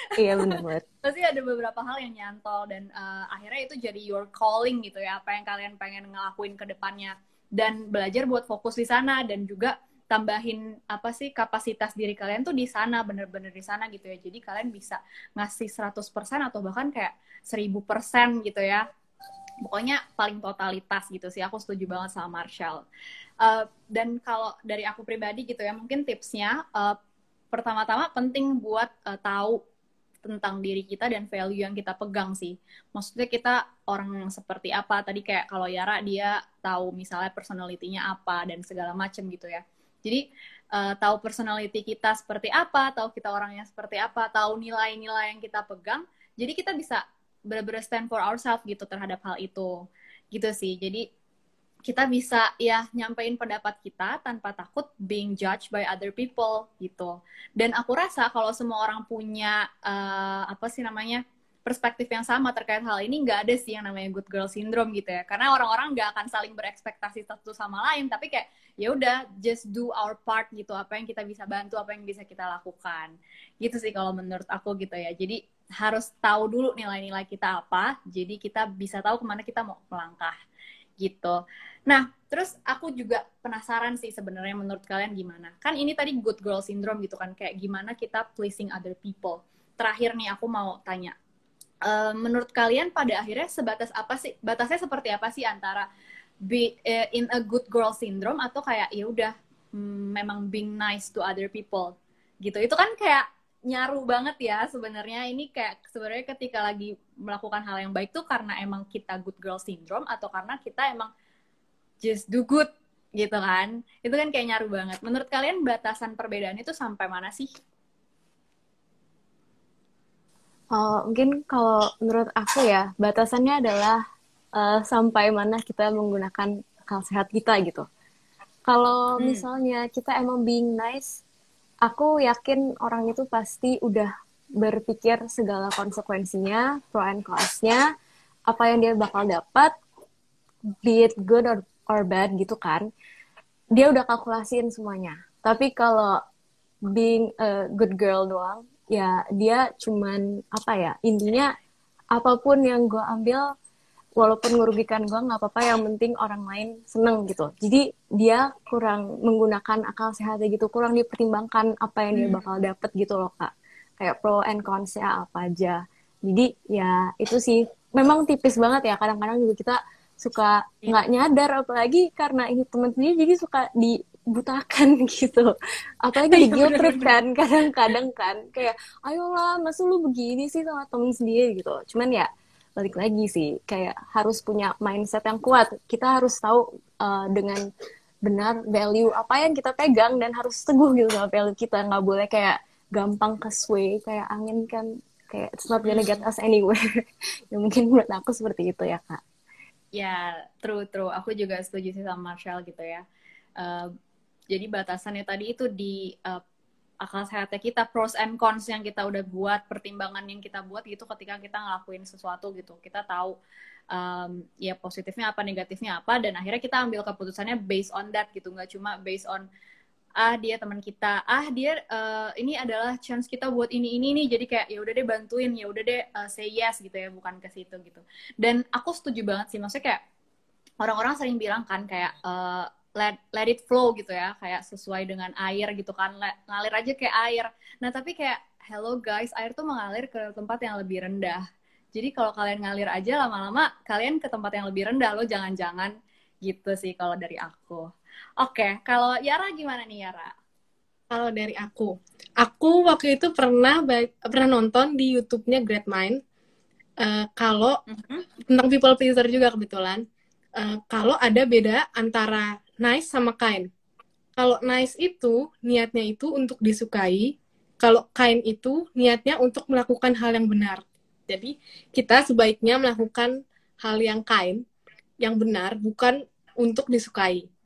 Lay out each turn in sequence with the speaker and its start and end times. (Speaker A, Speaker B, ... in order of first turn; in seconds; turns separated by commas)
Speaker A: 0.2-0.8, Speaker B: 0.4-18.9, Speaker B: 19.6-22.8, Speaker B: 23.4-27.0, Speaker B: 27.5-29.6, Speaker B: 30.2-40.2, Speaker B: 40.7-49.7, Speaker B: 50.3-51.0, Speaker B: 51.9-80.3, Speaker B: 81.0-91.1, Speaker B: 91.8-95.9, Speaker B: 96.4-111.1, Speaker B: 112.0-117.5, Speaker A: 120.7-124.0, Speaker A: 124.5-127.8, Speaker A: 128.7-131.2, Speaker B: 129.2-129.4, Speaker A: 131.8-137.8, Speaker A: 138.5-139.7, Speaker A: 140.8-142.9, Speaker A: 143.7-146.2, Speaker A: 146.9-151.5, Speaker A: 152.1-153.5, Speaker A: 154.2-187.6, Speaker B: 162.1-162.4, Speaker B: 176.3-177.1, Speaker A: 188.2-196.8, Speaker B: 195.8-196.2, Speaker A: 197.5-199.2, Speaker B: 200.0-203.0, Speaker B: 203.6-203.9, Speaker B: 204.5-206.4, Speaker B: 207.0-213.4, Speaker B: 213.9-219.5, Speaker B: 220.2-230.0, Speaker B: 230.8-241.4, Speaker B: 241.9-245.9, Speaker B: 246.4-247.9, Speaker B: 248.4-250.3, Speaker C: 251.1-256.2, Speaker C: 257.0-257.8, Speaker B: 257.9-258.2, Speaker C: 258.5-260.0, Speaker C: 260.6-263.7, Speaker C: 264.4-274.6, Speaker C: 275.2-277.4